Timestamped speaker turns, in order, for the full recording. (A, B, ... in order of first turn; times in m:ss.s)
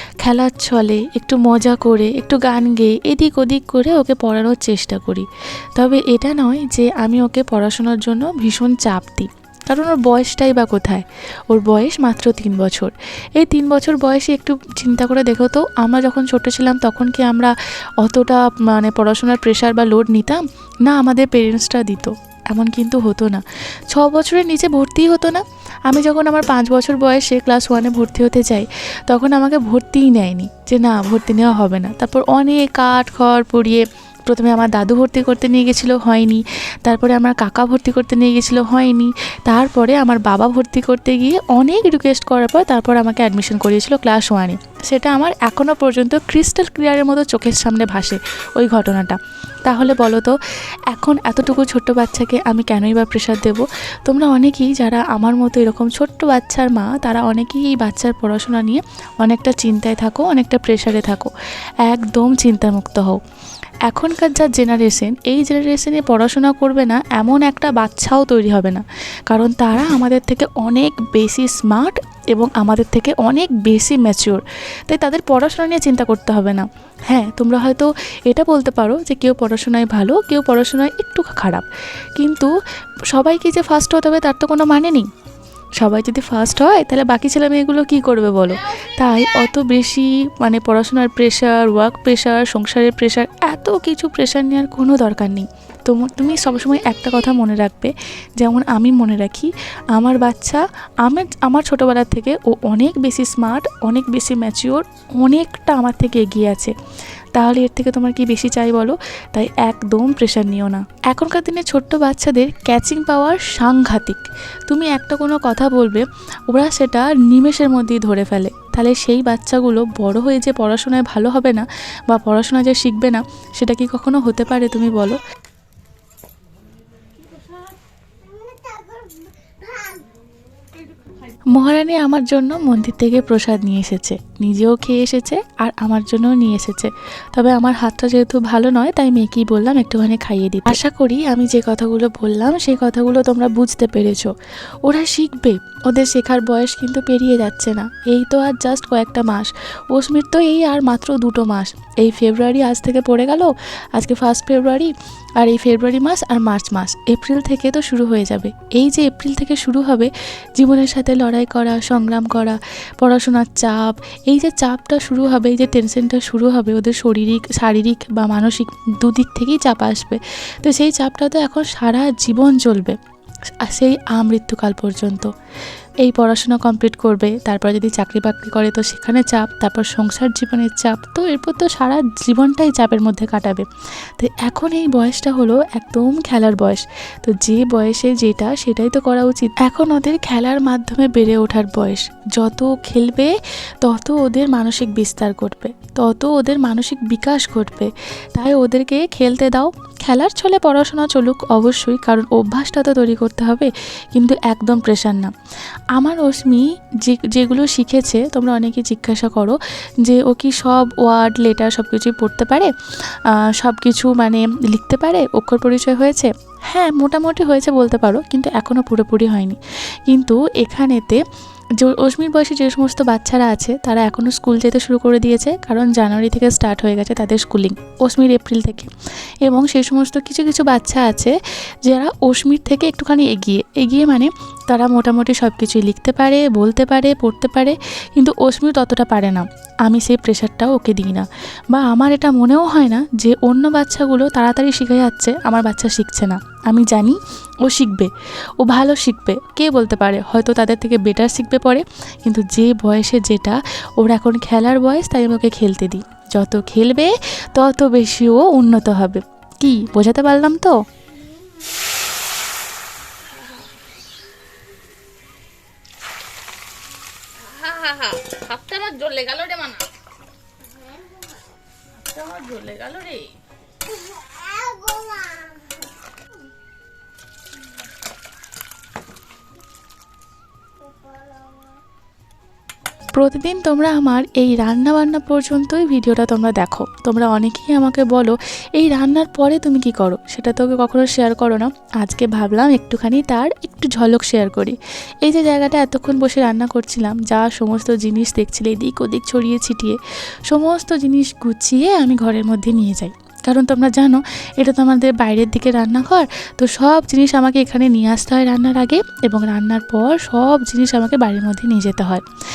0:00.2-0:50.3 A
0:50.9-1:01.3 A
1:01.8-1:03.2 A
1:03.8-1:21.6 A
1:22.2-1:22.5 A
1:23.1-1:25.1 A
1:25.8-1:46.7 A
1:28.5-1:29.6 B
1:47.3-2:05.2 A
2:07.2-2:07.8 B
2:08.2-2:10.1 C
2:10.7-2:11.4 B
2:11.5-2:53.0 A
2:53.6-2:55.3 A
2:56.0-3:03.6 A
3:04.2-3:25.3 A
3:25.9-3:32.7 A
3:33.5-3:41.2 A
3:41.8-3:48.9 A
3:49.4-4:20.7 A
4:21.1-4:22.0 C
4:23.4-4:23.6 B
4:27.4-4:29.9 B
4:30.6-4:31.6 C
4:32.0-4:33.3 B
4:33.8-4:36.2 C
4:40.8-4:41.8 C
4:43.1-5:12.2 A